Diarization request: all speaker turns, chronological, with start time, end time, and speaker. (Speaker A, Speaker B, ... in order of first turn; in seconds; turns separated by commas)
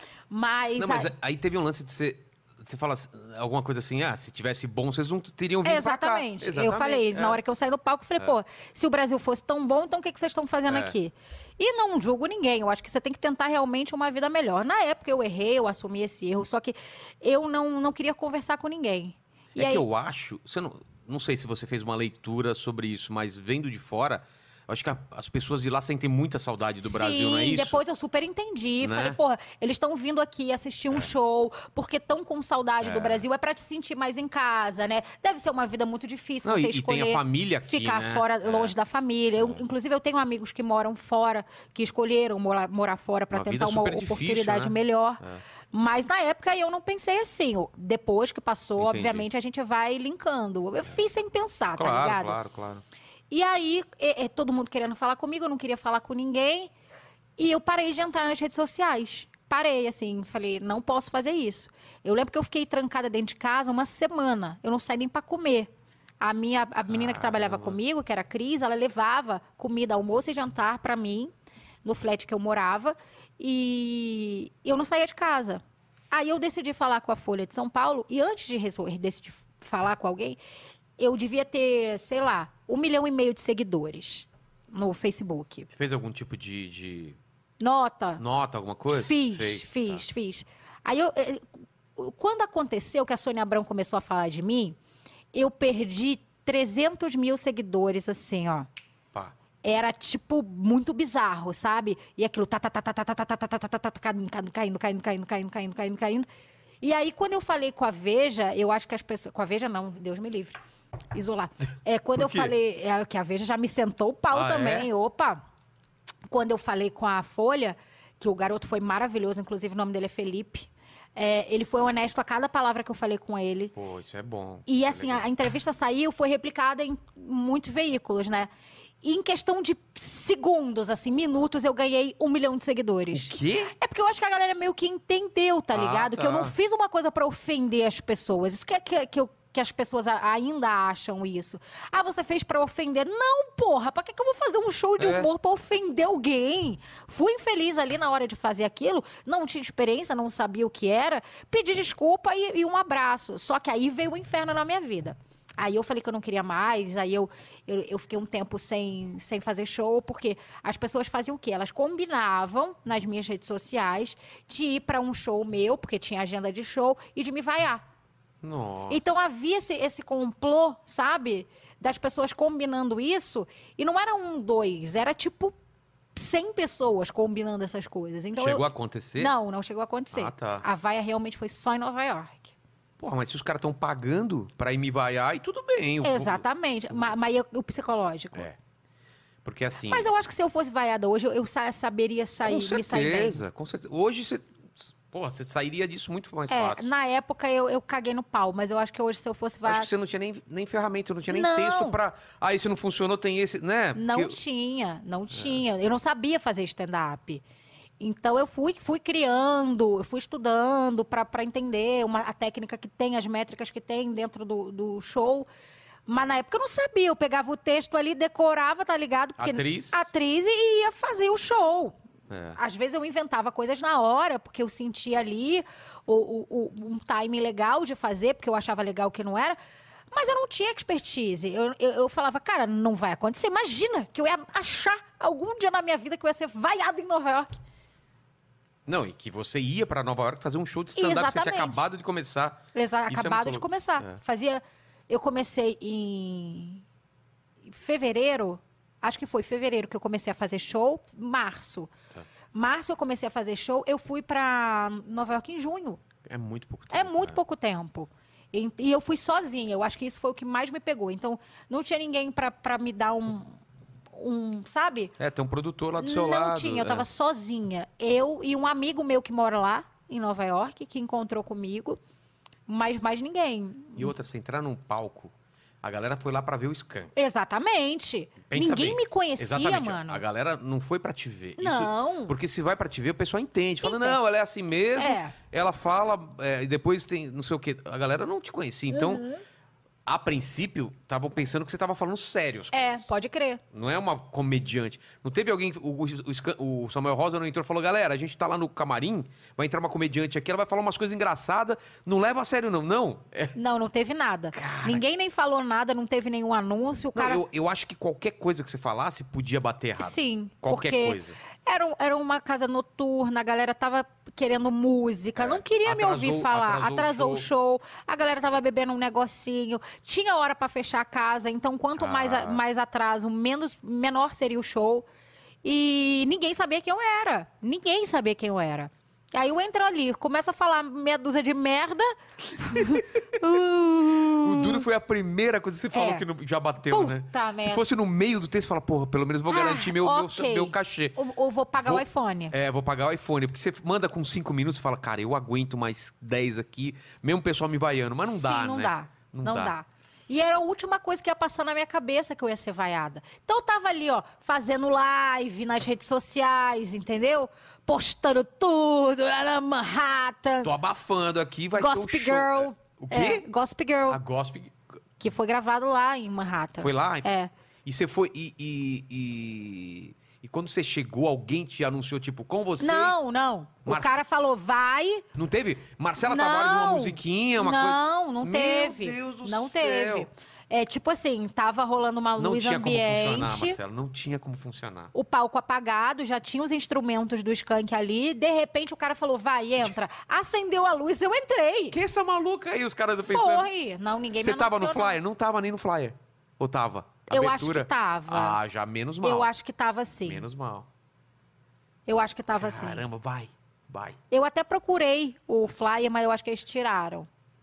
Speaker A: 0.3-1.1, Speaker B: 0.8-7.4, Speaker A: 5.6-19.8, Speaker B: 10.7-10.9, Speaker B: 19.6-27.8, Speaker A: 26.8-52.4, Speaker B: 28.8-29.2, Speaker B: 32.8-33.2, Speaker B: 36.4-38.7, Speaker B: 43.3-45.4, Speaker B: 48.8-49.2, Speaker B: 51.8-52.8, Speaker A: 53.3-56.7, Speaker A: 57.4-71.3, Speaker B: 66.9-67.8, Speaker A: 71.8-80.4, Speaker A: 81.0-85.7, Speaker B: 85.7-87.2, Speaker A: 87.6-88.2, Speaker B: 88.2-90.0, Speaker A: 88.9-94.8, Speaker A: 95.3-98.7, Speaker A: 99.6-106.3, Speaker A: 106.8-110.6, Speaker A: 111.1-115.4, Speaker B: 112.1-112.5, Speaker B: 114.3-114.9, Speaker A: 116.3-123.7, Speaker B: 123.7-125.3, Speaker A: 124.7-128.5, Speaker A: 129.0-167.8, Speaker B: 133.1-133.7, Speaker B: 135.7-136.5, Speaker B: 145.0-145.3, Speaker B: 168.4-169.1, Speaker A: 168.9-175.5, Speaker A: 176.1-182.6, Speaker B: 178.4-179.3, Speaker B: 180.1-180.7, Speaker B: 183.0-187.1, Speaker A: 186.0-188.5, Speaker B: 189.4-190.1, Speaker A: 189.9-193.4, Speaker B: 192.4-196.9, Speaker A: 196.5-199.9, Speaker B: 199.6-204.4, Speaker A: 201.3-202.0, Speaker A: 203.9-207.4, Speaker B: 205.3-205.6, Speaker A: 208.0-215.5, Speaker A: 216.1-221.9, Speaker B: 219.4-220.1, Speaker B: 222.3-222.6, Speaker A: 222.6-229.6, Speaker A: 230.1-237.6, Speaker B: 238.8-244.1, Speaker A: 240.9-241.8, Speaker A: 242.7-246.8, Speaker A: 247.7-251.9, Speaker A: 252.5-256.0, Speaker B: 256.2-257.4, Speaker A: 256.9-263.6, Speaker A: 264.1-265.1, Speaker B: 265.2-267.1, Speaker A: 266.0-272.0, Speaker A: 272.7-274.1, Speaker B: 274.0-277.1, Speaker A: 277.1-280.2, Speaker B: 278.5-289.2, Speaker A: 281.6-282.3, Speaker A: 283.8-284.2, Speaker A: 284.9-285.3, Speaker A: 288.9-289.4, Speaker B: 290.1-293.1, Speaker A: 292.7-293.6, Speaker B: 293.7-303.5, Speaker A: 303.5-307.4, Speaker B: 304.5-305.0, Speaker B: 307.1-311.4, Speaker A: 310.0-325.1, Speaker B: 315.4-317.5, Speaker B: 321.9-322.6, Speaker A: 325.6-334.8, Speaker B: 334.2-341.2, Speaker A: 335.9-336.2, Speaker A: 336.9-337.8, Speaker A: 339.5-342.5, Speaker B: 341.8-349.7, Speaker A: 348.2-360.7, Speaker B: 360.6-363.4, Speaker A: 361.8-364.2, Speaker B: 364.1-364.7, Speaker A: 365.2-367.5, Speaker B: 366.8-367.3, Speaker B: 367.8-373.2, Speaker A: 372.8-375.2, Speaker B: 373.8-374.2, Speaker B: 375.3-380.3, Speaker A: 376.2-383.8, Speaker B: 382.4-385.1, Speaker A: 385.1-392.0, Speaker B: 391.9-393.7, Speaker A: 393.2-395.2, Speaker B: 394.4-399.5, Speaker A: 397.3-398.6, Speaker A: 399.2-400.4, Speaker B: 400.2-400.9, Speaker A: 402.1-403.0, Speaker B: 402.6-404.2, Speaker A: 404.3-407.3